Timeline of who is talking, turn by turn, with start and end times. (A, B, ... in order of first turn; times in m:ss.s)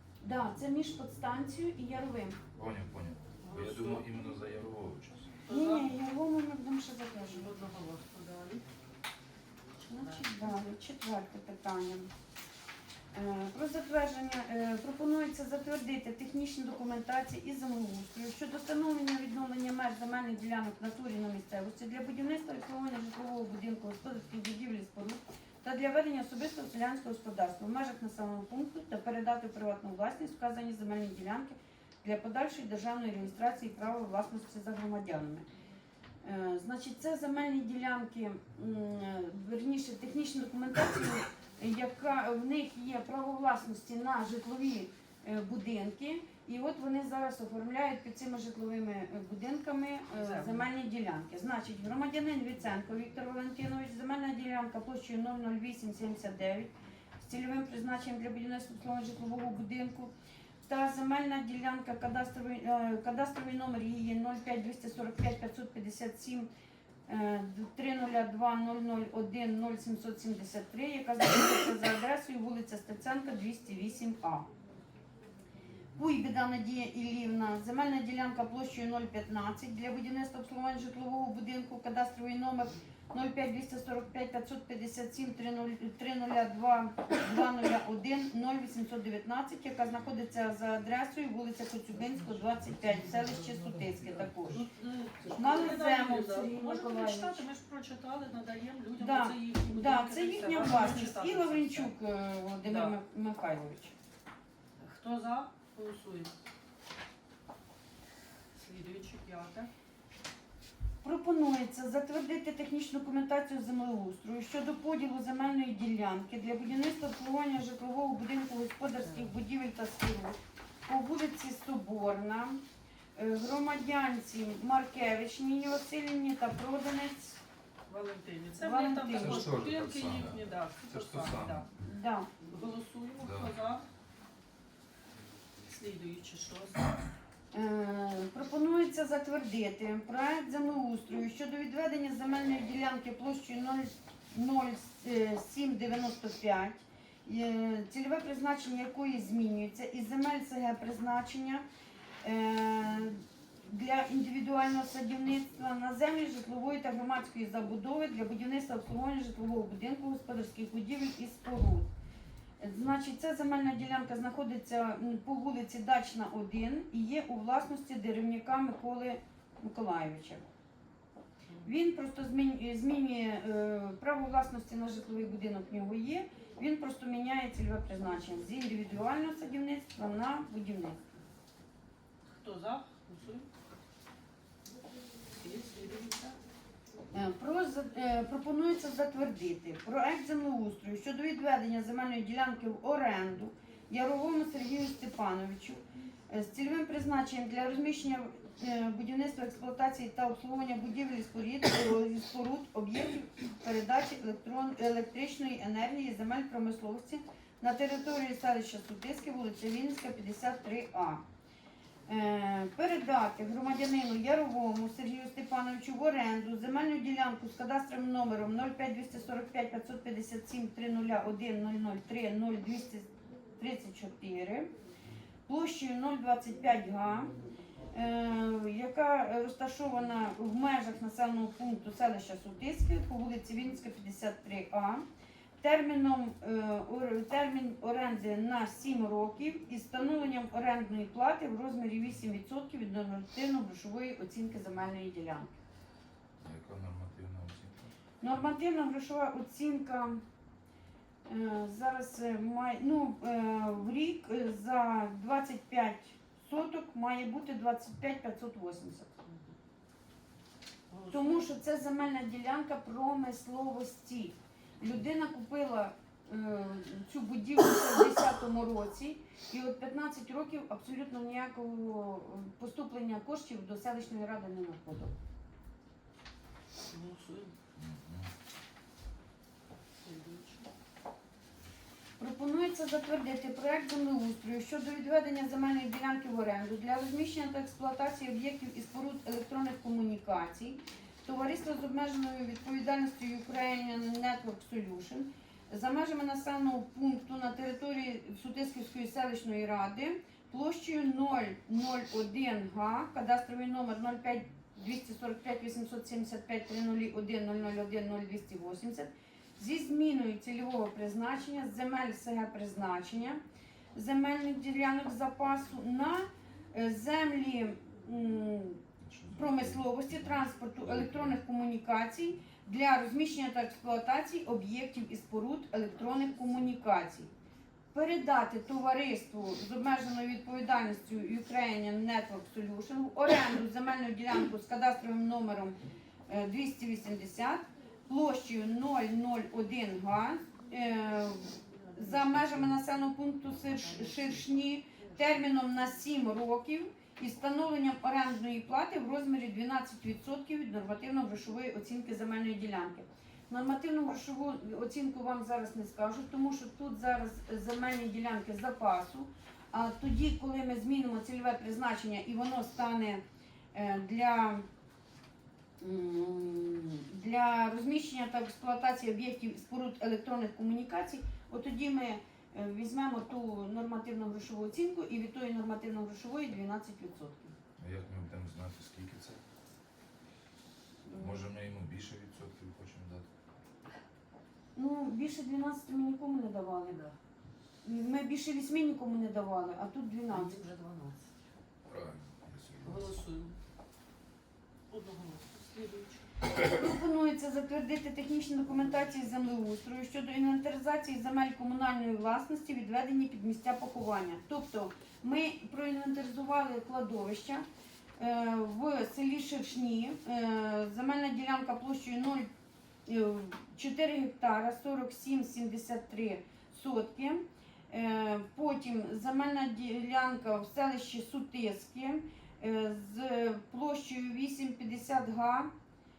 0:00.2-0:02.4 A
0:02.6-0:05.3 B
0:03.4-0:04.0 C
0:05.5-0:05.9 C
0:05.5-0:07.5 A
0:07.3-0:08.6 C
0:09.8-0:10.2 C
0:09.9-0:12.1 A
0:13.1-0:35.5 A
0:36.2-1:00.1 A
0:50.1-0:50.7 C
1:00.6-1:06.5 A
1:07.1-1:14.5 A
1:16.0-1:34.6 A
1:34.5-1:41.9 C
1:35.3-1:37.4 A
1:39.0-1:43.9 A
1:42.6-1:43.0 C
1:44.8-1:46.3 C
1:48.6-1:49.7 C
1:51.0-2:02.6 A
1:59.0-1:59.3 C
2:03.2-2:07.4 A
2:07.9-2:11.7 C
2:08.6-2:09.6 A
2:09.1-2:11.7 B
2:11.8-2:12.3 A
2:12.5-2:13.8 C
2:13.2-2:13.5 B
2:15.6-2:16.9 C
2:17.5-2:31.6 A
2:32.2-2:41.9 A
2:42.6-2:50.5 A
2:51.6-3:01.0 A
3:02.3-3:03.5 C
3:05.4-3:06.4 C
3:07.1-3:31.2 A
3:32.1-3:44.7 A
3:45.5-3:47.4 A
3:47.9-3:55.0 A
3:55.6-4:05.5 A
4:06.4-4:07.9 B
4:08.2-4:10.2 A
4:11.2-4:19.1 A
4:19.2-4:19.5 C
4:20.9-4:21.5 C
4:21.1-4:35.1 A
4:36.9-4:37.5 C
4:37.8-4:38.3 B
4:40.0-4:40.7 C
4:42.2-5:13.4 A
5:13.9-5:27.3 A
5:19.0-5:21.4 B
5:27.9-5:35.8 A
5:36.3-6:03.2 A
5:41.7-5:42.7 C
5:43.8-5:44.4 C
6:03.7-6:04.6 A
6:05.8-6:17.6 A
6:17.8-6:19.4 B
6:21.0-6:21.5 A
6:21.1-6:23.3 B
6:24.8-6:26.9 A
6:26.8-6:27.1 C
6:27.8-6:30.6 A
6:30.3-6:31.2 C
6:31.9-6:33.1 B
6:32.8-6:33.6 C
6:34.9-6:36.3 C
6:36.5-6:47.6 A
6:48.2-6:52.5 A
6:53.0-7:05.7 A